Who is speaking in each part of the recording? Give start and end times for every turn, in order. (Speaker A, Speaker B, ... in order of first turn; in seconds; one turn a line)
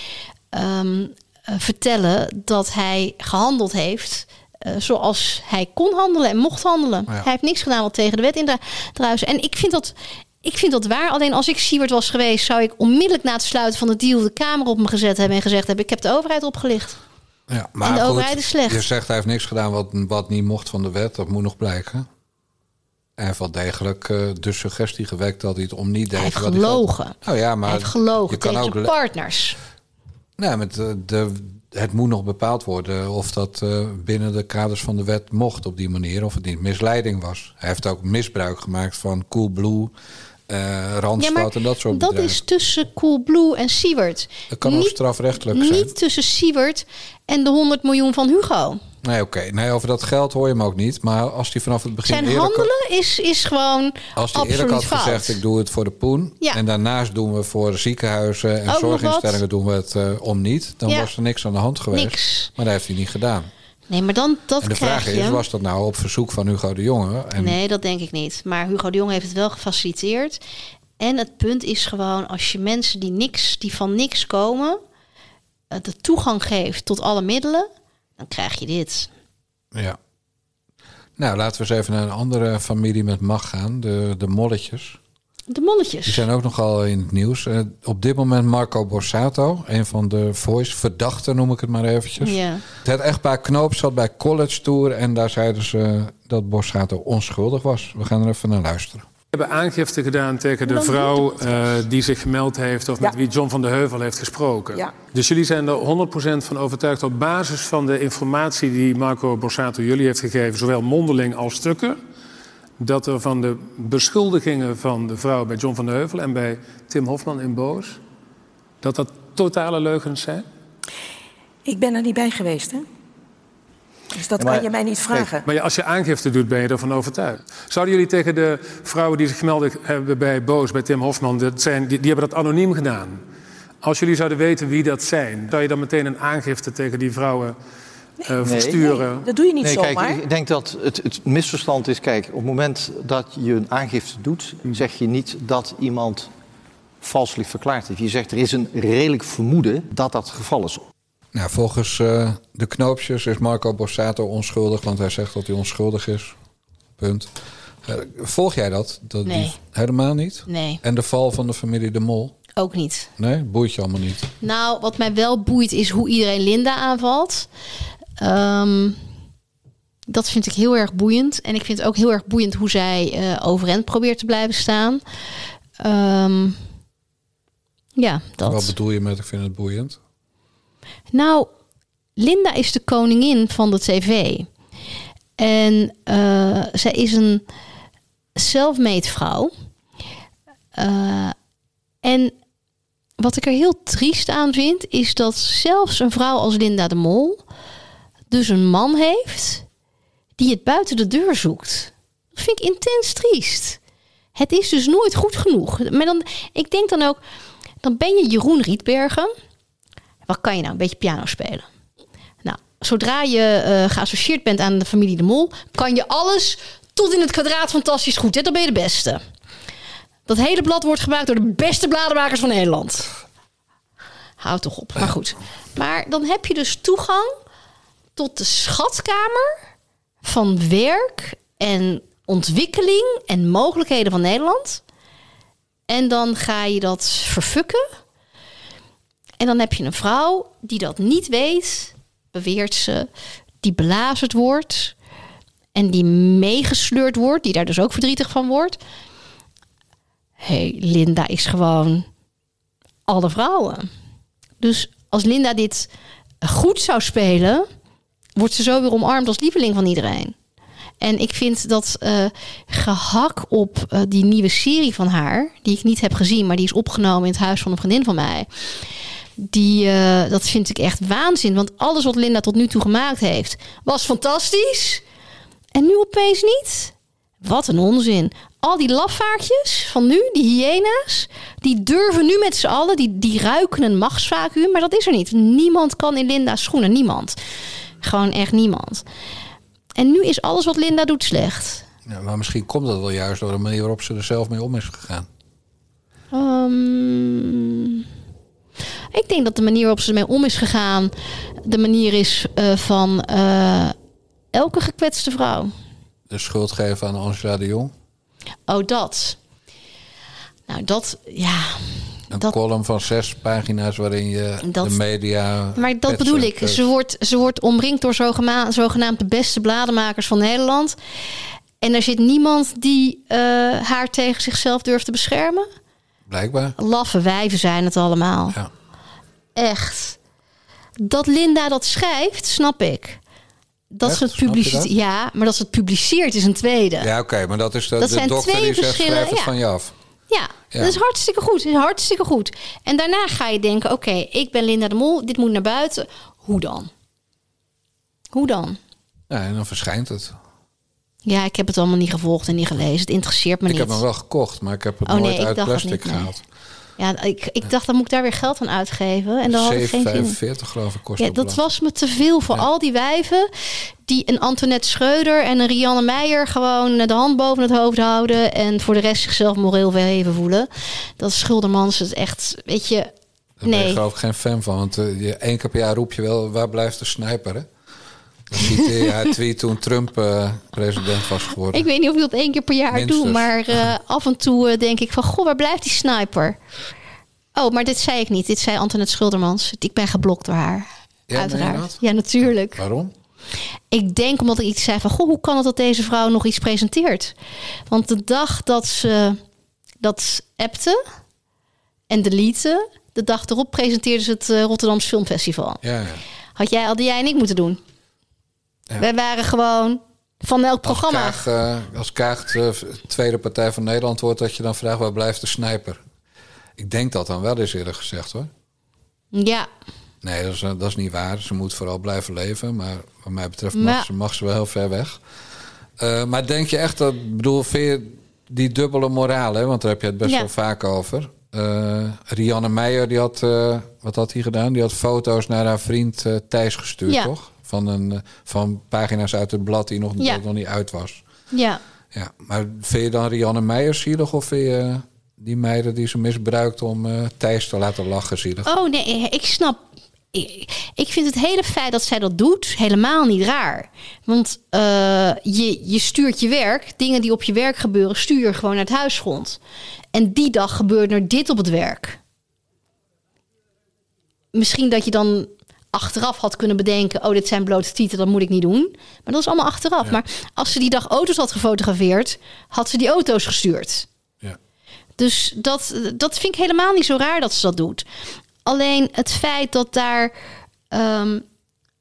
Speaker A: 0.5-17.0
Speaker B: 17.5-22.1
Speaker A: 17.8-18.8
Speaker B: 23.2-28.9
Speaker A: 26.1-29.6
Speaker B: 30.4-39.9
Speaker B: 40.5-42.4
Speaker A: 41.2-44.9
Speaker B: 44.5-45.9
Speaker A: 45.5-48.8
Speaker B: 49.0-52.7
Speaker A: 52.0-55.4
Speaker B: 54.1-63.5
Speaker A: 58.7-59.4
Speaker A: 61.9-62.5
Speaker A: 63.9-65.4
Speaker B: 64.6-67.6
Speaker A: 67.3-70.4
Speaker A: 71.0-74.8
Speaker A: 75.7-79.1
Speaker B: 79.7-80.0
Speaker B: 81.2-85.0
Speaker A: 85.5-86.2
Speaker B: 86.0-99.0
Speaker A: 92.2-92.6
Speaker C: 99.3-112.0
Speaker C: 112.8-118.0
Speaker C: 118.8-120.4
Speaker D: 121.6-122.9
Speaker D: 124.1-125.4
Speaker E: 124.3-125.4
Speaker C: 125.4-133.2
Speaker C: 133.8-137.6
Speaker C: 138.2-139.3
Speaker E: 138.4-139.0
Speaker D: 139.2-140.2
Speaker E: 139.6-146.3
Speaker E: 147.0-150.8
Speaker B: 151.3-156.3
Speaker B: 157.0-157.3
Speaker B: 157.8-162.3
Speaker A: 159.2-159.6
Speaker A: 160.5-160.8
Speaker A: 162.6-163.1
Speaker B: 163.2-164.3
Speaker A: 164.4-167.5
Speaker A: 168.2-169.0
Speaker A: 170.1-175.0
Speaker A: 175.8-176.6
Speaker A: 178.0-178.7
Speaker B: 178.4-180.0
Speaker A: 181.1-181.5
Speaker A: 182.2-184.5
Speaker A: 185.4-187.4
Speaker A: 188.3-189.5
Speaker A: 190.7-191.3
Speaker A: 192.0-192.3
Speaker A: 193.2-197.4
Speaker A: 198.3-199.6
Speaker A: 200.4-203.8
Speaker A: 204.3-207.2
Speaker A: 207.8-209.3
Speaker A: 210.2-211.7
Speaker A: 212.4-219.2
Speaker A: 220.3-223.1
Speaker A: 224.4-227.3
Speaker A: 228.2-229.6
Speaker A: 230.2-234.8
Speaker A: 235.9-237.8
Speaker A: 239.4-243.1
Speaker A: 243.6-244.9
Speaker A: 245.7-248.8
Speaker A: 250.4-252.1
Speaker A: 253.1-253.9
Speaker A: 254.6-255.9
Speaker A: 256.4-257.6
Speaker A: 258.4-260.3
Speaker A: 261.0-268.5
Speaker A: 269.4-275.0
Speaker A: 275.7-287.4
Speaker A: 288.0-289.0
Speaker A: 290.0-291.8
Speaker B: 292.1-295.3
Speaker A: 296.3-298.0
Speaker A: 299.1-303.9
Speaker A: 304.5-305.7
Speaker B: 306.3-307.9
Speaker A: 308.7-309.4
Speaker A: 310.7-312.6
Speaker B: 312.3-316.9
Speaker A: 314.6-315.0
Speaker A: 315.8-320.9
Speaker A: 321.8-325.7
Speaker B: 326.3-326.8
Speaker A: 326.8-328.6
Speaker A: 329.6-330.2
Speaker A: 331.0-333.2
Speaker A: 333.9-337.1
Speaker B: 334.0-334.9
Speaker B: 337.0-339.9
Speaker A: 338.0-339.5
Speaker A: 340.3-346.9
Speaker B: 340.7-341.0
Speaker A: 348.3-348.8
Speaker B: 349.3-350.4
Speaker A: 351.2-354.0
Speaker B: 353.7-356.4
Speaker A: 355.1-356.3
Speaker A: 357.0-360.4
Speaker B: 359.5-361.6
Speaker A: 361.2-363.5
Speaker A: 364.1-373.1
Speaker B: 373.6-377.7
Speaker A: 373.6-374.0
Speaker B: 378.5-381.9
Speaker A: 381.7-386.6
Speaker B: 382.9-383.9
Speaker A: 387.5-392.8
Speaker B: 391.3-393.1
Speaker A: 393.9-397.3
Speaker A: 397.9-399.4
Speaker A: 400.0-401.0
Speaker A: 402.1-405.8
Speaker B: 405.8-406.2
Speaker A: 406.6-407.8
Speaker A: 409.0-411.4
Speaker B: 410.8-416.0
Speaker B: 416.8-418.5
Speaker A: 419.3-419.7
Speaker B: 420.2-425.2
Speaker A: 423.7-424.1
Speaker B: 426.0-441.2
Speaker A: 441.5-441.8
Speaker B: 442.1-448.7
Speaker A: 448.6-449.8
Speaker A: 450.3-459.6
Speaker A: 460.1-462.2
Speaker A: 464.5-474.1
Speaker A: 475.2-478.1
Speaker A: 478.6-480.3
Speaker A: 480.9-481.4